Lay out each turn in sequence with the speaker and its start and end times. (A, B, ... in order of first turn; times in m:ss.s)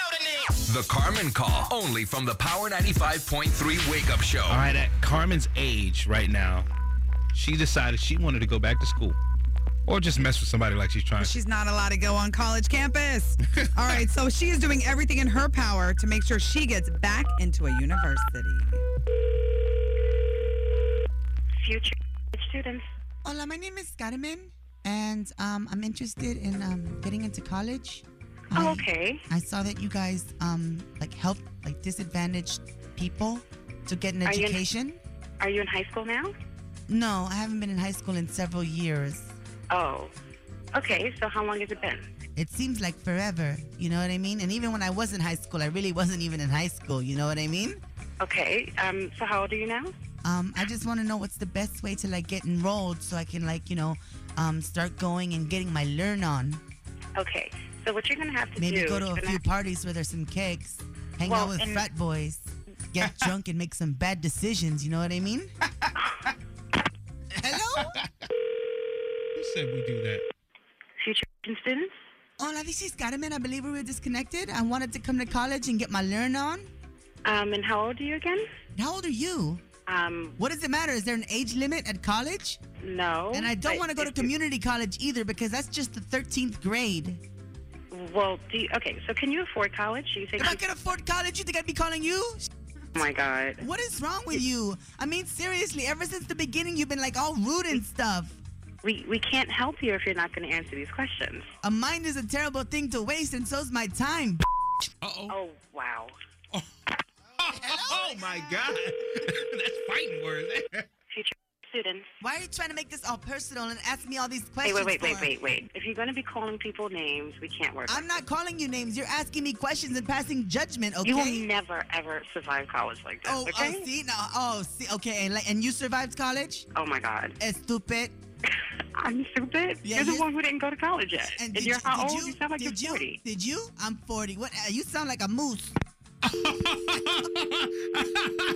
0:00.5-0:04.7 A
0:04.5-0:06.7 B
0:07.3-0:09.2 B
0:09.8-0:11.4 B
0:11.2-0:18.8 C
0:21.6-0:22.8 D
0:23.2-0:35.0 E
0:28.5-0:29.2 D
0:34.2-0:34.6 D
0:35.4-0:36.3 D
0:36.9-0:39.3 E
0:39.7-0:40.1 D
0:40.7-0:42.1 D
0:42.4-0:47.8 E
0:48.2-0:49.9 D
0:50.2-0:56.6 E
0:57.1-0:59.4 D
0:58.6-1:05.5 E
1:01.2-1:01.9 D
1:07.3-1:08.0 E
1:09.4-1:10.2 B
1:11.0-1:11.9 D
1:12.4-1:16.7 E
1:17.2-1:18.4 D
1:18.7-1:19.6 E
1:19.9-1:20.4 D
1:20.4-1:22.6 E
1:22.8-1:24.3 D
1:23.3-1:27.2 E
1:27.9-1:30.6 D
1:30.4-1:32.5 E
1:32.9-1:33.6 D
1:33.6-1:38.4 E
1:38.8-1:41.5 D
1:41.6-1:44.4 E
1:45.0-1:45.4 B
1:45.3-1:46.1 D
1:47.4-1:50.9 B
1:47.5-1:48.5 E
1:51.1-1:52.1 D
1:52.2-1:55.3 E
1:54.6-1:58.2 D
1:57.9-2:01.4 E
2:01.0-2:03.8 D
2:03.2-2:06.7 E
2:06.7-2:07.4 D
2:07.4-2:08.1 E
2:09.0-2:13.2 D
2:09.8-2:10.2 E
2:11.4-2:15.8 E
2:17.2-2:17.7 B